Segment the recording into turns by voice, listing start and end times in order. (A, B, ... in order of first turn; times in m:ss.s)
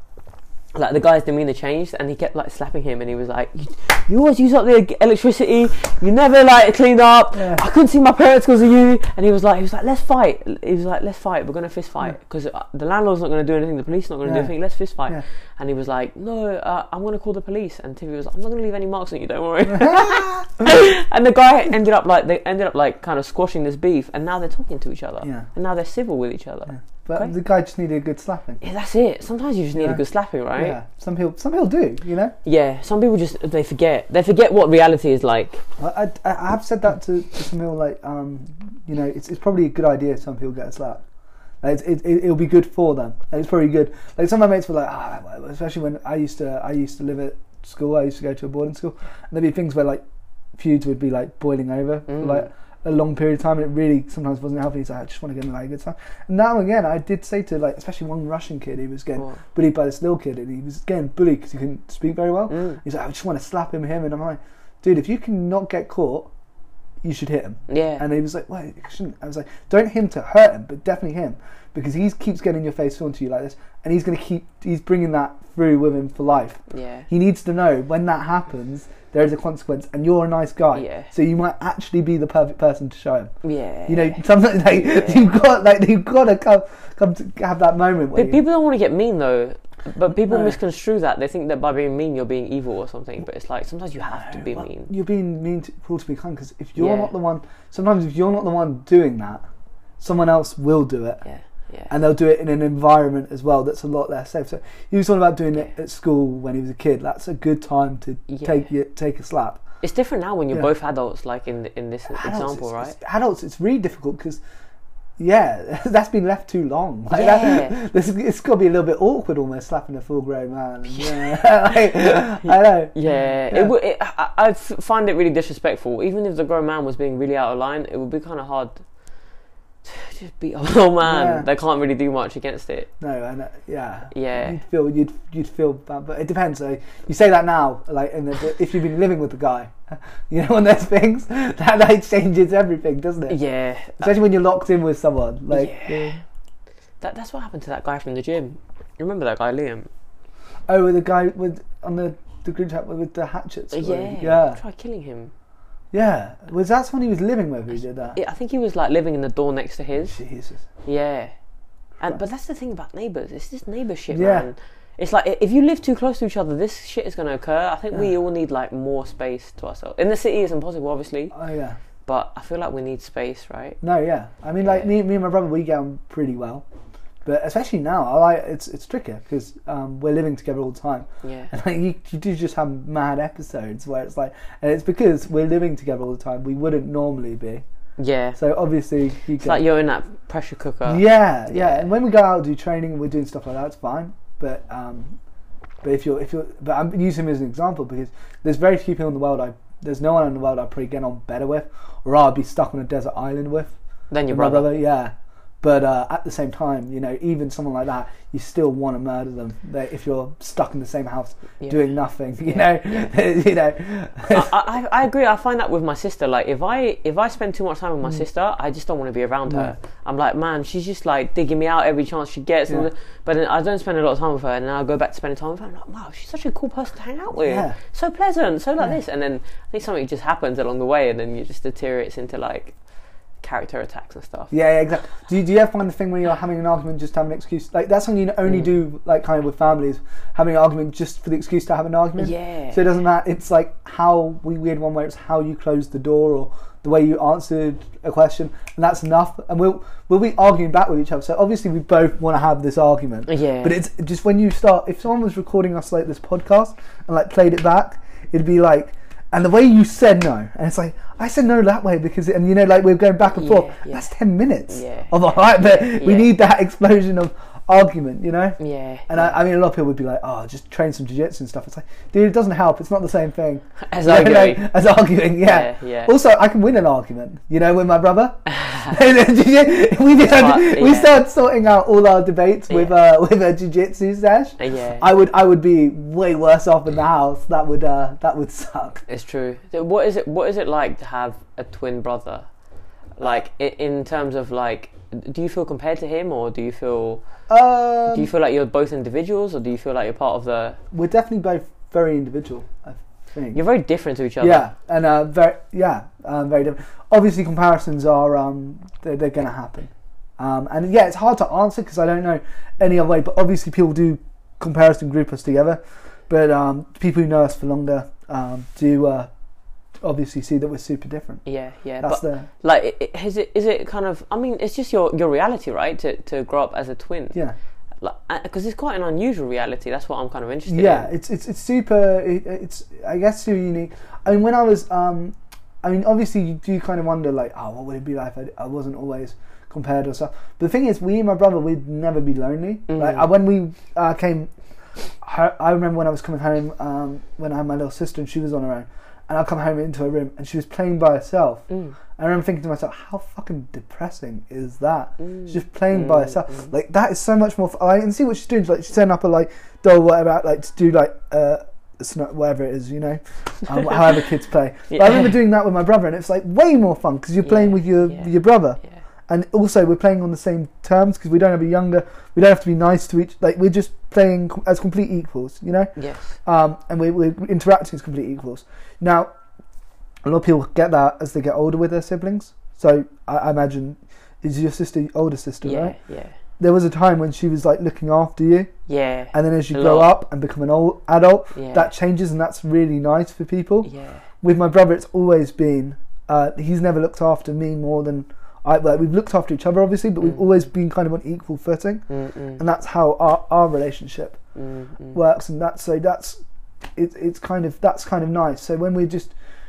0:00.7-0:27.3 A
0:07.4-0:07.6 B
0:14.2-0:14.5 B
0:19.7-0:20.6 B
0:26.7-0:28.6 B
0:28.6-0:30.8 A
0:29.8-0:30.0 B
0:30.6-0:32.4 B
0:32.4-0:35.6 A
0:35.8-0:41.0 B
0:41.6-0:50.0 B
0:50.6-1:06.3 B
0:52.1-0:52.5 A
1:02.5-1:02.8 A
1:07.0-1:23.3 B
1:07.7-1:08.1 A
1:16.7-1:17.1 A
1:20.7-1:21.1 A
1:23.4-1:24.2 A
1:23.9-1:28.4 B
1:24.8-1:25.2 A
1:28.2-1:34.9 A
1:30.1-1:30.6 B
1:34.0-1:39.4 B
1:36.8-1:37.1 A
1:40.0-1:41.2 B
1:41.2-1:41.9 A
1:41.9-1:49.6 B
1:48.3-1:48.6 A
1:49.8-1:53.0 A
1:52.1-1:54.4 B
1:55.2-2:02.9 B
1:57.1-1:57.8 A
2:00.9-2:08.8 A
2:09.8-2:12.9 A
2:11.0-2:11.5 B
2:13.0-2:23.4 B
2:14.1-2:14.6 A
2:23.3-2:24.1 A
2:24.0-2:26.2 B
2:25.5-2:26.2 A
2:27.0-2:29.9 A
2:30.7-2:34.6 B
2:33.7-2:35.3 A
2:35.9-2:38.2 B
2:38.2-2:40.2 A
2:40.1-2:40.6 B
2:40.8-2:41.3 A
2:42.0-2:51.4 A
2:44.1-2:44.5 B
2:51.3-2:51.8 B
2:52.1-2:53.8 A
2:53.8-2:56.6 B
2:54.6-2:54.9 A
2:57.2-3:07.6 B
3:01.2-3:01.5 A
3:08.0-3:08.4 A
3:08.4-3:09.6 B
3:09.4-3:11.9 A
3:10.9-3:15.2 B
3:15.8-3:23.7 B
3:24.1-3:24.7 A
3:24.3-3:34.5 B
3:31.6-3:31.9 A
3:34.3-3:52.8 A
3:39.5-3:39.7 B
3:47.4-3:47.8 B
3:53.4-3:54.5 A
3:54.5-4:49.0 B
4:02.2-4:02.8 A
4:13.3-4:13.8 A
4:23.3-4:24.1 A
4:24.7-4:26.3 A
4:28.6-4:29.4 A
4:33.8-4:34.7 A
4:35.4-4:36.1 A
4:38.5-4:39.0 A
4:40.2-4:41.2 A
4:42.7-4:43.0 A
4:44.6-4:45.1 A
4:49.1-4:52.5 A
4:53.2-4:57.2 A
4:57.5-4:58.3 B
4:58.1-5:00.8 A
5:00.9-5:03.6 B
5:03.5-5:04.7 A
5:04.4-5:19.3 B
5:20.0-5:21.4 B
5:21.5-5:27.4 A
5:22.0-5:22.5 B
5:28.0-5:31.1 A
5:30.7-5:44.5 B
5:42.9-5:43.3 A
5:45.2-5:51.6 B
5:51.7-5:52.0 A
5:52.2-6:15.9 B
5:55.2-5:56.7 A
6:04.9-6:05.3 A
6:07.4-6:08.3 A
6:16.0-6:16.4 A
6:16.4-6:19.3 B
6:20.2-6:26.0 B
6:25.6-6:26.4 A
6:26.6-6:28.7 B
6:28.9-6:30.1 A
6:29.3-6:33.9 B
6:31.6-6:31.9 A
6:33.8-6:34.2 A
6:34.4-6:42.0 B
6:42.1-6:42.6 A
6:42.6-6:44.4 B
6:44.6-6:45.2 A
6:45.1-6:46.4 B
6:47.0-6:49.3 B